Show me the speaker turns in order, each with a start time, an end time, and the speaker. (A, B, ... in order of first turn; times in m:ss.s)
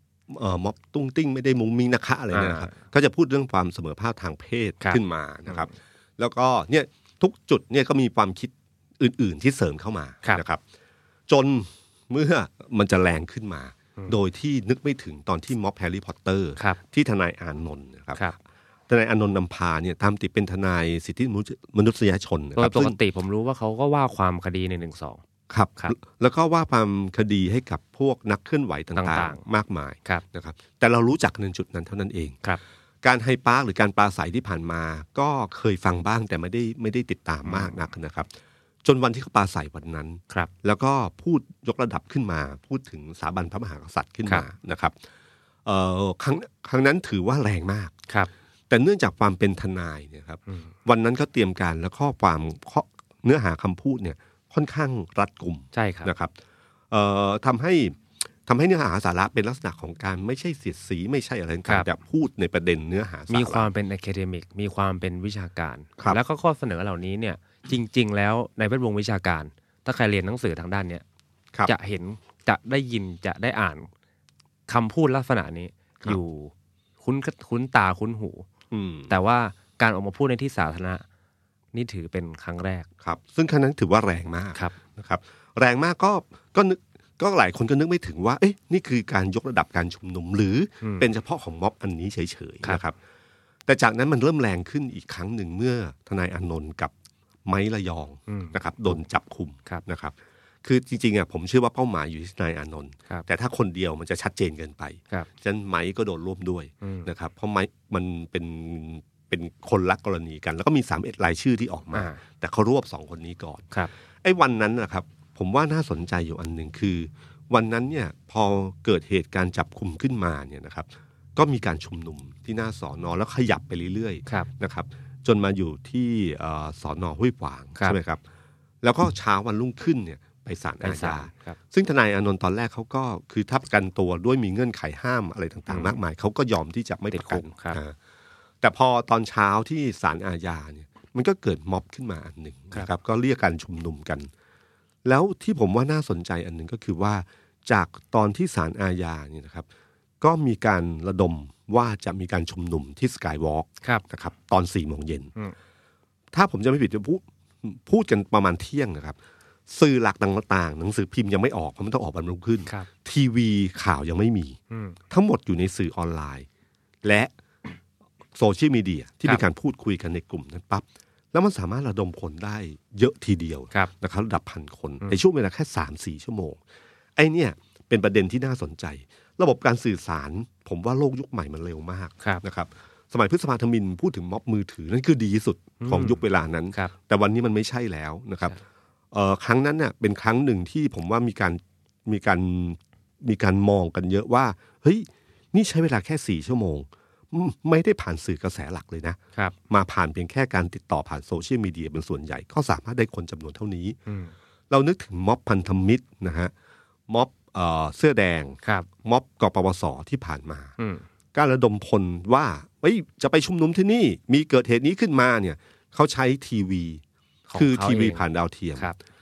0:00.3-0:10.6 A
0:02.3-0:02.8 B
0:04.8-0:05.7 B
0:11.3-0:18.2 A
0:18.9-0:23.0 A
0:22.6-0:25.2 B
0:25.5-0:32.4 A
0:28.9-0:29.4 B
0:33.0-0:38.3 A
0:37.4-0:37.7 B
0:38.8-0:44.9 A
0:45.6-0:47.9 A
0:48.7-0:56.3 A
0:55.7-0:56.1 B
0:56.9-1:03.7 A
1:03.3-1:11.0 B
1:11.6-1:13.9 B
1:14.7-1:18.5 B
1:18.7-1:19.1 A
1:19.1-1:21.0 B
1:21.7-1:22.9 B
1:23.0-1:33.0 A
1:33.7-1:36.9 A
1:37.4-1:53.7 A
1:38.3-1:38.6 B
1:46.8-1:47.1 B
1:51.9-1:52.2 B
1:54.2-2:08.2 A
2:08.8-2:18.0 A
2:10.8-2:11.6 B
2:15.7-2:16.0 B
2:17.1-2:17.8 B
2:18.6-2:24.3 A
2:25.0-2:29.7 A
2:30.2-2:35.3 A
2:36.3-2:39.2 A
2:39.7-2:44.6 A
2:44.7-2:45.0 B
2:45.1-2:46.5 A
2:47.0-2:47.3 A
2:48.4-2:56.6 A
2:57.2-3:08.6 A
3:05.8-3:06.2 B
3:09.1-3:19.2 A
3:19.7-3:24.0 A
3:24.1-3:24.3 B
3:24.7-3:26.5 A
3:27.1-3:30.7 A
3:28.6-3:28.9 B
3:30.8-3:31.0 B
3:31.3-3:37.0 A
3:37.5-3:38.2 B
3:37.5-3:38.9 A